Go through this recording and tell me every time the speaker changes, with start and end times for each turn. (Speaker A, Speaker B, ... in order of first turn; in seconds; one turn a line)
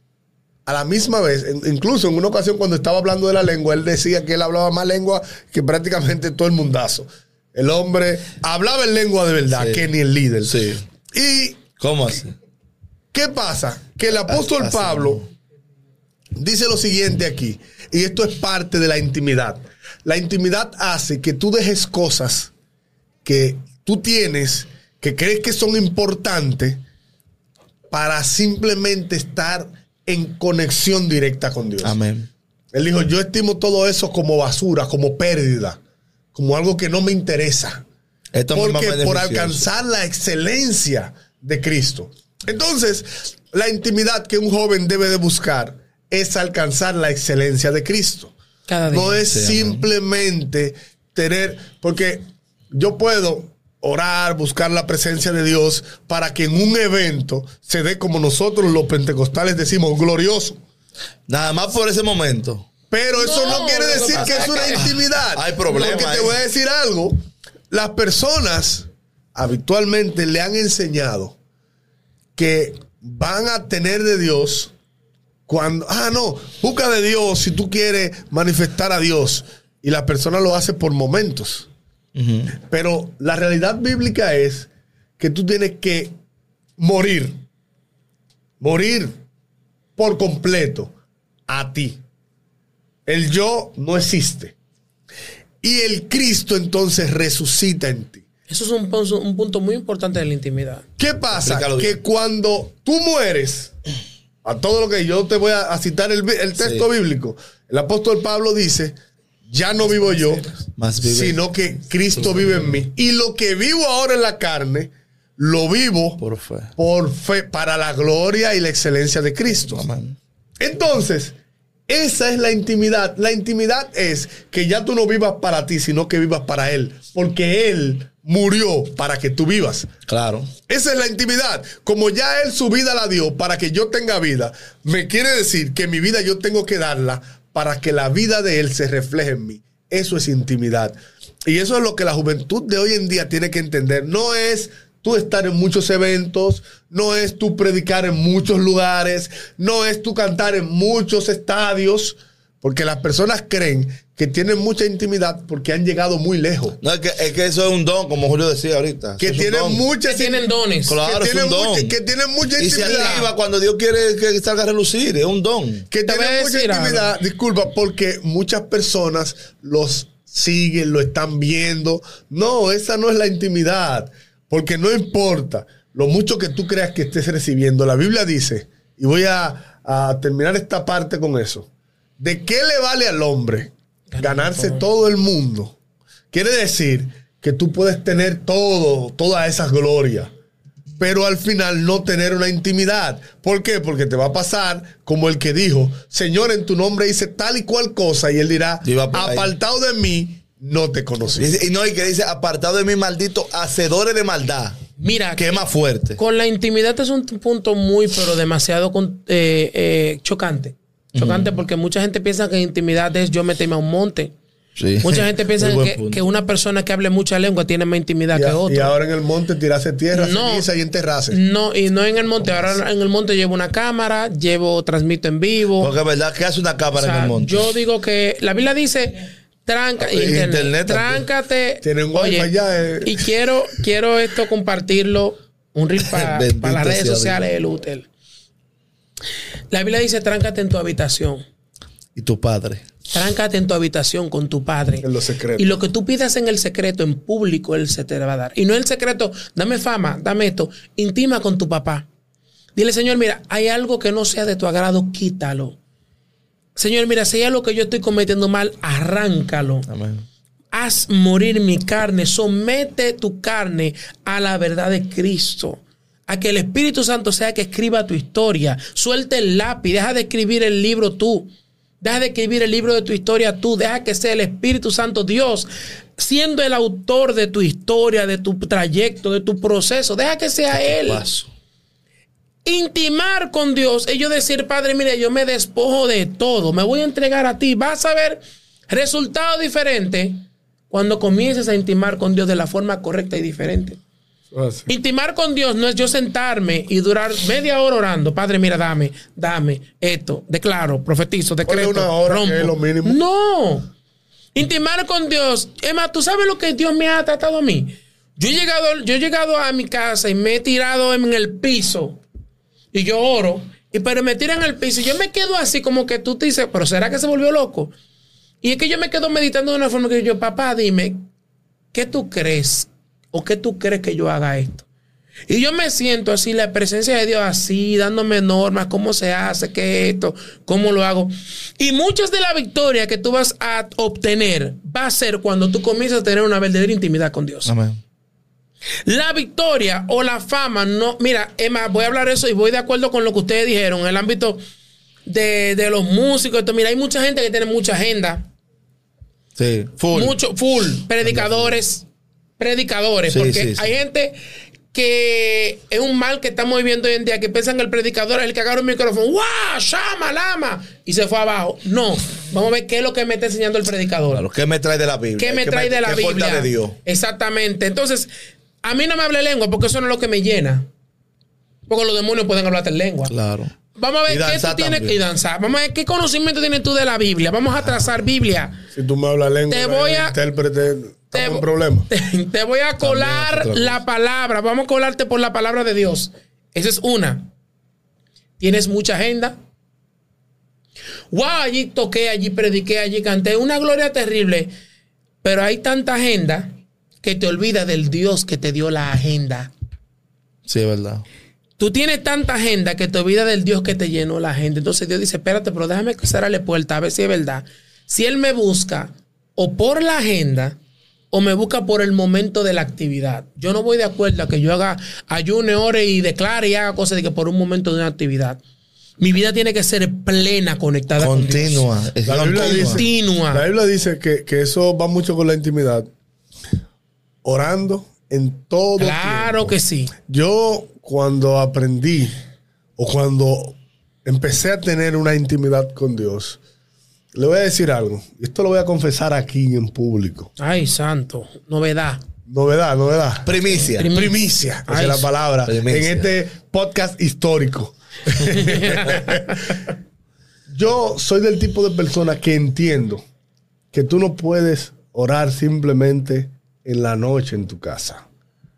Speaker A: 0.7-10.6
Speaker B: 9.5-9.9
Speaker B: 10.4-10.8
Speaker A: 11.1-11.7
Speaker B: 11.8-12.3
Speaker A: 13.1-15.2
Speaker B: 14.3-15.2
Speaker A: 16.4-22.5
Speaker A: 23.2-26.8
Speaker A: 27.9-31.9
Speaker B: 31.8-32.3
Speaker A: 32.7-35.8
Speaker A: 36.3-37.8
Speaker B: 38.3-39.6
Speaker A: 38.5-48.3
Speaker C: 48.7-49.2
Speaker A: 48.9-60.6
Speaker B: 49.3-49.9
Speaker B: 61.3-62.7
Speaker A: 62.9-67.2
Speaker C: 63.1-64.8
Speaker B: 64.2-66.4
Speaker A: 67.7-71.3
Speaker A: 72.4-74.7
Speaker A: 75.5-81.7
Speaker B: 82.2-82.5
Speaker A: 82.5-86.1
Speaker A: 86.8-87.4
Speaker A: 88.6-89.2
Speaker A: 90.0-90.9
Speaker A: 91.5-92.0
Speaker A: 93.1-94.5
Speaker A: 95.6-98.2
Speaker C: 98.5-100.8
Speaker A: 101.0-103.7
Speaker B: 101.3-102.0
Speaker A: 104.4-108.9
Speaker B: 106.6-106.8
Speaker A: 109.5-110.5
Speaker B: 110.8-111.4
Speaker A: 111.0-116.2
Speaker B: 116.2-116.7
Speaker A: 116.8-119.8
Speaker B: 119.6-120.2
Speaker A: 120.6-121.3
Speaker A: 121.9-129.9
Speaker B: 130.1-130.5
Speaker A: 130.7-156.8
Speaker B: 156.8-159.9
Speaker A: 159.2-160.4
Speaker C: 160.1-161.0
Speaker B: 160.9-162.0
Speaker A: 161.0-163.3
Speaker B: 162.6-165.9
Speaker C: 162.8-163.3
Speaker A: 165.9-181.7
Speaker C: 166.1-167.1
Speaker A: 182.2-185.8
Speaker C: 184.1-184.8
Speaker A: 186.3-190.3
Speaker A: 191.0-201.6
Speaker B: 198.8-199.5
Speaker B: 201.4-204.8
Speaker C: 205.0-205.5
Speaker B: 205.4-206.2
Speaker C: 206.2-214.3
Speaker B: 211.1-211.6
Speaker B: 214.8-216.2
Speaker C: 215.0-218.9
Speaker A: 218.3-221.4
Speaker C: 220.1-220.7
Speaker C: 221.3-225.9
Speaker B: 225.8-227.7
Speaker C: 226.9-232.5
Speaker B: 230.0-231.2
Speaker A: 231.8-233.2
Speaker C: 233.0-238.1
Speaker B: 236.0-237.4
Speaker C: 239.7-241.4
Speaker B: 242.2-242.8
Speaker C: 243.1-252.1
Speaker A: 245.0-245.8
Speaker C: 252.8-255.8
Speaker C: 256.8-259.9
Speaker B: 259.9-260.2
Speaker C: 260.7-271.5
Speaker C: 272.0-281.2
Speaker B: 280.7-281.5
Speaker C: 282.6-294.0
Speaker A: 294.5-294.9
Speaker C: 294.9-303.9
Speaker A: 301.6-303.2
Speaker C: 304.6-312.2
Speaker C: 312.9-317.9
Speaker C: 318.6-321.3
Speaker C: 321.9-324.9
Speaker C: 325.5-337.7
Speaker B: 337.7-338.0
Speaker C: 339.1-344.6
Speaker C: 345.3-348.5
Speaker B: 349.6-350.4
Speaker C: 350.1-352.1
Speaker B: 351.3-351.7
Speaker C: 352.6-354.4
Speaker B: 353.3-353.9
Speaker C: 354.9-364.4
Speaker B: 364.3-367.0
Speaker C: 365.4-368.3
Speaker C: 368.8-370.9
Speaker C: 371.9-373.3
Speaker B: 373.3-373.7
Speaker C: 373.9-378.8
Speaker B: 374.3-375.2
Speaker A: 378.9-382.1
Speaker C: 379.7-380.4
Speaker C: 381.3-387.5
Speaker B: 383.0-383.9
Speaker C: 388.6-389.6
Speaker C: 391.3-394.7
Speaker C: 395.4-399.7
Speaker B: 400.7-401.2
Speaker C: 401.8-410.8
Speaker C: 411.3-418.6
Speaker C: 419.2-421.8
Speaker B: 421.2-423.0
Speaker A: 422.3-426.1
Speaker C: 422.6-423.6
Speaker A: 427.4-429.8
Speaker C: 429.0-430.1
Speaker A: 430.3-432.3
Speaker A: 433.0-436.6
Speaker A: 437.3-440.5
Speaker C: 440.6-442.2
Speaker A: 442.5-443.5
Speaker B: 443.4-444.1
Speaker C: 443.7-444.4
Speaker A: 444.1-449.6
Speaker C: 444.9-445.3
Speaker B: 445.7-446.3
Speaker C: 448.4-449.8
Speaker A: 450.7-453.2
Speaker A: 453.9-458.3